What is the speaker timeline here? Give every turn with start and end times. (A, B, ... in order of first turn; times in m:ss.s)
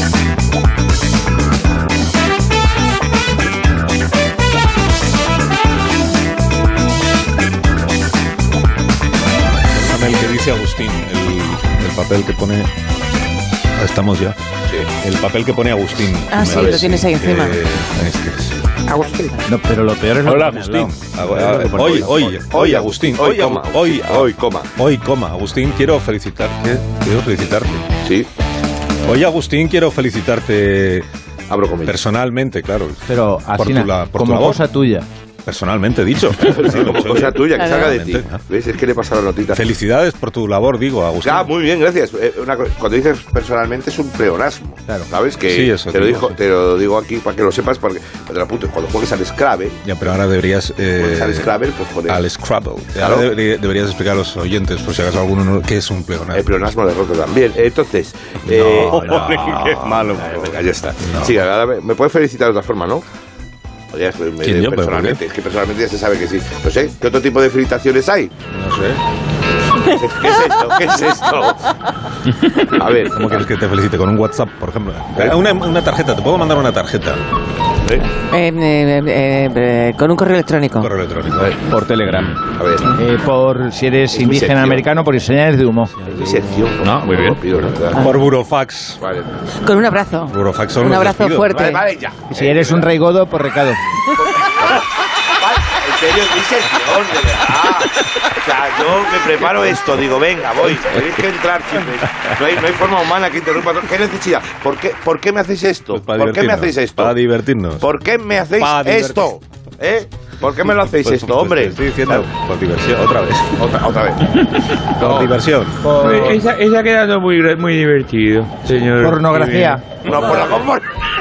0:09.7-0:12.7 A
0:13.8-0:14.4 A
0:15.0-0:18.6 A
0:16.3-0:17.6 B
0:18.9-0:22.2 C
0:20.2-0:27.9 A
0:21.4-0:24.7 D
0:28.0-0:28.3 D
0:29.0-0:31.1 A
0:31.5-0:32.0 D
0:31.8-0:34.7 A
0:33.1-0:35.1 C
0:35.5-0:38.4 A
0:36.4-0:39.7 D
0:37.6-0:37.9 B
0:39.5-0:41.5 A
0:41.2-0:49.8 D
0:45.5-0:46.4 A
0:49.8-0:51.5 A
0:51.0-0:52.2 D
0:52.1-0:56.7 A
0:53.0-0:53.3 D
0:56.3-1:03.0 D
0:58.4-1:01.4 A
1:03.9-1:08.3 D
1:04.4-1:05.2 A
1:08.5-1:09.0 A
1:09.8-1:11.8 D
1:12.6-1:13.3 D
1:13.1-1:17.2 A
1:18.3-1:20.9 B
1:20.8-1:21.6 A
1:21.5-1:22.3 C
1:22.1-1:22.3 E
1:22.5-1:22.9 D
1:23.0-1:25.9 C
1:24.1-1:24.9 D
1:26.1-1:28.1 D
1:26.8-1:27.5 E
1:28.0-1:29.0 A
1:29.0-1:29.4 D
1:29.6-1:31.8 B
1:30.3-1:31.7 A
1:31.5-1:32.9 D
1:32.3-1:33.8 C
1:34.1-1:47.2 D
1:45.9-1:47.9 A
1:47.8-1:52.3 D
1:48.6-1:49.3 A
1:50.7-1:53.6 A
1:53.6-1:54.4 D
1:55.0-1:55.9 A
1:55.0-1:55.3 D
1:55.8-1:56.3 C
1:55.9-2:00.7 E
1:59.0-1:59.8 C
2:00.0-2:00.9 D